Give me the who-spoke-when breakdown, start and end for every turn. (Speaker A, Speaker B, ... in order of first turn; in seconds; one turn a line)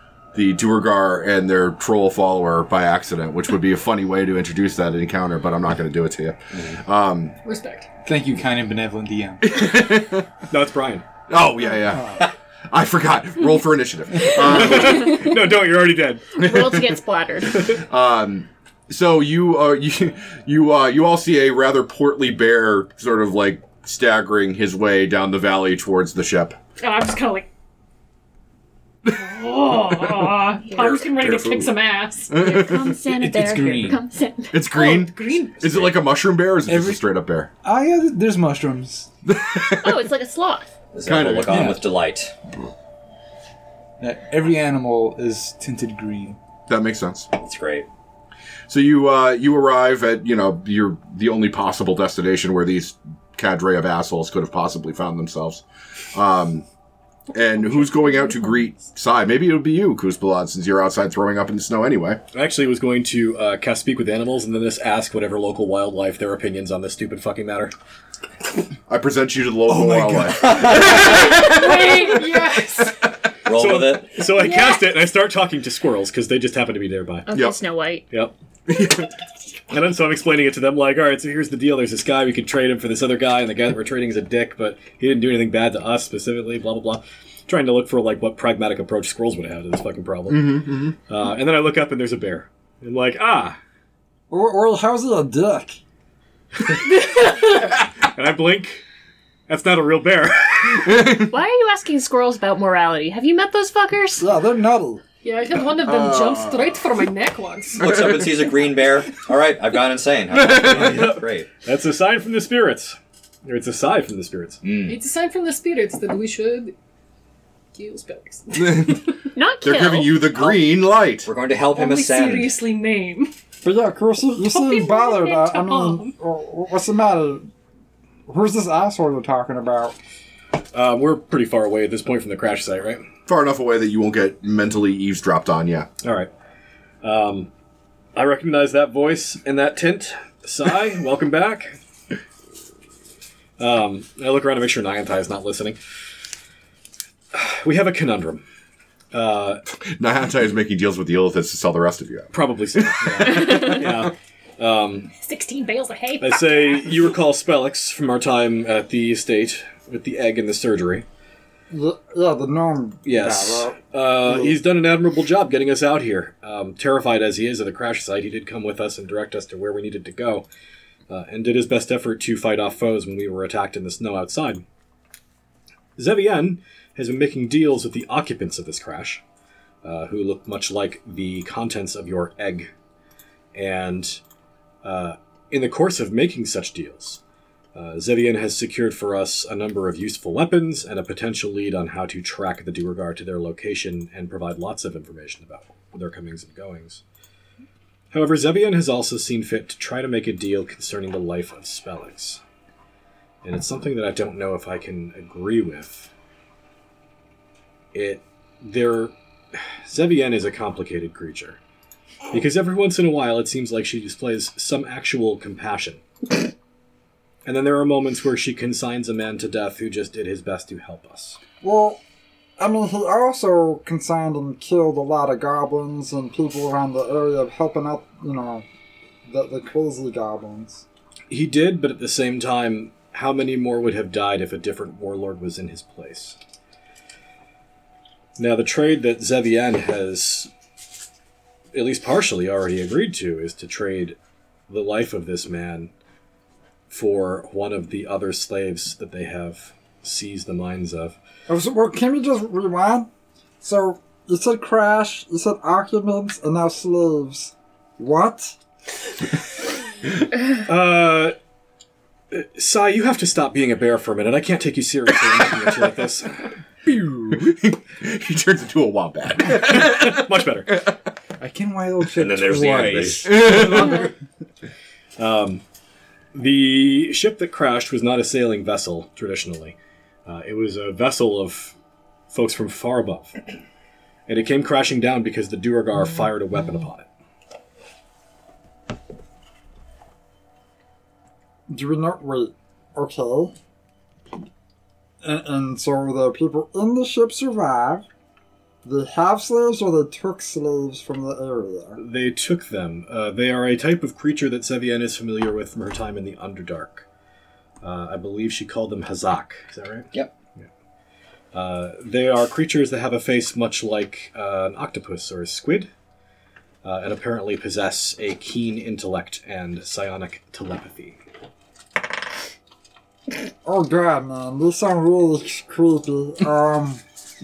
Speaker A: 0.3-7.4
Speaker B: 7.4-7.9
Speaker C: 8.1-9.6
Speaker A: 9.4-10.3
Speaker D: 10.5-11.1
Speaker A: 11.3-15.2
Speaker D: 14.4-16.3
Speaker E: 14.6-15.4
Speaker E: 16.3-17.8
Speaker A: 16.4-17.0
Speaker A: 17.7-26.6
Speaker B: 26.8-27.5
Speaker B: 29.1-32.5
Speaker A: 30.0-31.7
Speaker A: 32.3-33.0
Speaker E: 32.3-34.6
Speaker C: 33.0-34.0
Speaker A: 34.5-37.5
Speaker B: 34.6-36.0
Speaker C: 36.7-37.0
Speaker C: 37.6-39.1
Speaker A: 39.3-40.1
Speaker E: 39.7-40.7
Speaker F: 40.9-42.4
Speaker A: 41.1-41.7
Speaker C: 41.5-41.9
Speaker C: 44.0-46.4
Speaker A: 46.7-47.3
Speaker F: 47.3-47.9
Speaker A: 48.7-56.6
Speaker A: 57.3-62.2
Speaker B: 57.7-58.5
Speaker D: 62.3-67.7
Speaker A: 68.9-71.5
Speaker C: 69.7-70.8
Speaker F: 70.4-71.4
Speaker B: 70.8-73.0
Speaker F: 73.4-74.2
Speaker D: 73.5-77.3
Speaker B: 74.3-74.9
Speaker E: 77.3-78.0
Speaker A: 77.3-77.6
Speaker A: 78.7-79.1
Speaker D: 79.7-93.6
Speaker A: 90.3-90.9
Speaker G: 94.3-95.8
Speaker D: 96.6-98.8
Speaker D: 99.5-101.2
Speaker E: 101.3-104.3
Speaker G: 104.2-105.0
Speaker B: 105.2-107.9
Speaker A: 105.8-106.7
Speaker F: 107.8-111.5
Speaker A: 107.8-108.5
Speaker D: 110.3-114.6
Speaker F: 114.6-115.0
Speaker B: 114.9-116.8
Speaker B: 117.7-119.0
Speaker A: 118.5-121.3
Speaker E: 119.3-120.4
Speaker F: 121.2-122.5
Speaker B: 121.7-123.3
Speaker G: 123.6-127.5
Speaker B: 124.4-126.1
Speaker G: 128.3-129.9
Speaker D: 130.7-133.1
Speaker A: 133.3-135.9
Speaker D: 136.0-136.3
Speaker D: 137.0-137.5
Speaker D: 138.1-141.8
Speaker D: 143.6-145.8
Speaker D: 147.3-148.4
Speaker D: 149.1-149.6
Speaker A: 149.8-153.8
Speaker D: 152.3-155.1
Speaker B: 155.1-157.0
Speaker D: 156.2-161.1
Speaker G: 161.7-164.6
Speaker D: 163.1-170.4
Speaker D: 171.1-174.6
Speaker D: 176.0-179.2
Speaker D: 179.8-182.7
Speaker D: 183.5-184.2
Speaker D: 184.8-187.2
Speaker D: 187.8-197.0
Speaker D: 198.1-202.4
Speaker D: 203.4-206.1
Speaker D: 207.9-211.6
Speaker D: 212.3-216.0
Speaker D: 217.4-221.4
Speaker G: 221.6-222.0
Speaker G: 222.6-228.7
Speaker G: 229.3-230.8
Speaker D: 231.3-236.4
Speaker D: 238.4-240.5
Speaker D: 241.7-244.2
Speaker D: 244.7-245.9
Speaker D: 246.9-251.2
Speaker G: 251.5-253.1
Speaker G: 253.6-258.6
Speaker D: 260.5-261.4
Speaker D: 262.3-266.4
Speaker A: 267.3-270.9
Speaker D: 269.4-270.7
Speaker C: 271.4-273.7
Speaker F: 272.1-273.4
Speaker A: 273.2-274.1
Speaker D: 273.5-273.9
Speaker D: 275.2-275.6
Speaker D: 276.3-281.8
Speaker D: 282.3-283.4
Speaker D: 284.3-287.1
Speaker G: 291.7-293.6
Speaker G: 295.2-298.1
Speaker G: 298.9-302.0
Speaker D: 302.0-307.1
Speaker D: 307.8-310.6
Speaker D: 311.5-315.9
Speaker D: 316.8-321.2
Speaker G: 323.6-327.0